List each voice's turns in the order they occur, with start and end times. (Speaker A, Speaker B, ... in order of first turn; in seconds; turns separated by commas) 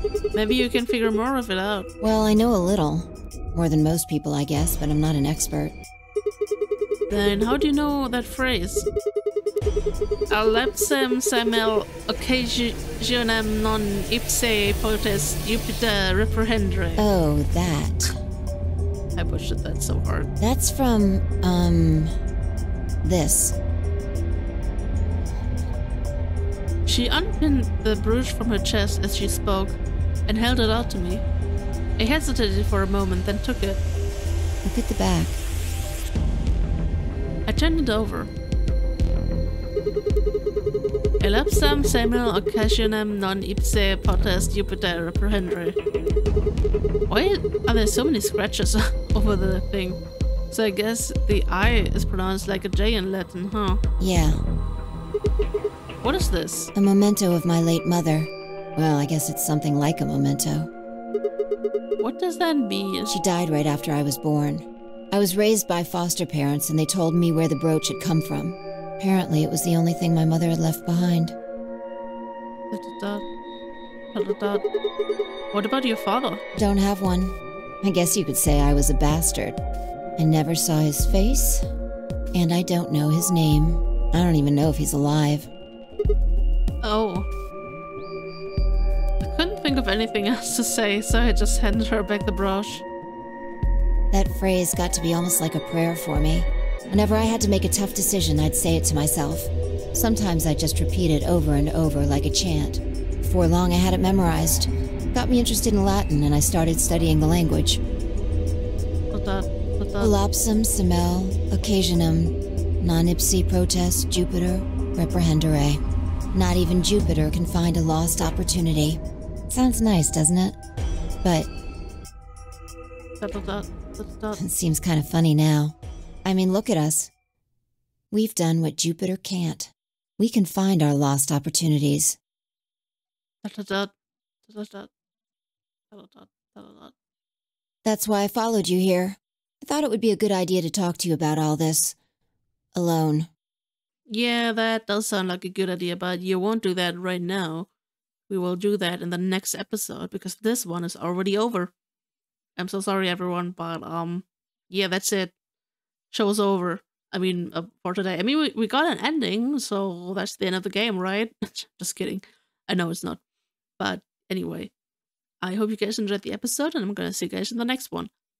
Speaker A: 0.3-1.9, Speaker B: 2.0-5.8, Speaker A: 7.1-8.9, Speaker A: 10.3-17.1, Speaker B: 17.0-18.2, Speaker A: 19.2-20.3, Speaker B: 20.4-22.1, Speaker B: 23.0-23.6, Speaker A: 26.9-31.2, Speaker A: 32.0-33.8, Speaker B: 34.6-35.4, Speaker A: 37.5-38.3, Speaker A: 41.2-45.8, Speaker A: 47.1-50.0, Speaker A: 50.5-53.8, Speaker B: 54.0-54.4, Speaker A: 56.0-56.7, Speaker B: 56.8-60.7, Speaker A: 62.0-63.1, Speaker B: 63.1-71.3, Speaker A: 72.7-73.2, Speaker A: 74.1-74.7, Speaker A: 75.5-76.4, Speaker B: 76.5-79.6, Speaker B: 80.2-81.7, Speaker B: 82.3-85.5, Speaker A: 86.8-87.3, Speaker A: 89.2-92.8, Speaker B: 94.1-107.8, Speaker A: 109.1-110.2, Speaker B: 110.0-115.8, Speaker B: 116.3-120.6, Speaker B: 121.2-121.5, Speaker A: 123.2-124.4, Speaker B: 124.4-127.1, Speaker B: 128.1-132.2, Speaker A: 133.4-133.9, Speaker A: 134.5-134.9, Speaker A: 135.9-136.9, Speaker B: 137.8-142.0, Speaker B: 142.7-143.3, Speaker A: 144.1-147.7, Speaker A: 148.3-151.7, Speaker A: 152.6-155.3, Speaker A: 156.1-163.2, Speaker A: 163.8-164.7, Speaker A: 165.4-168.1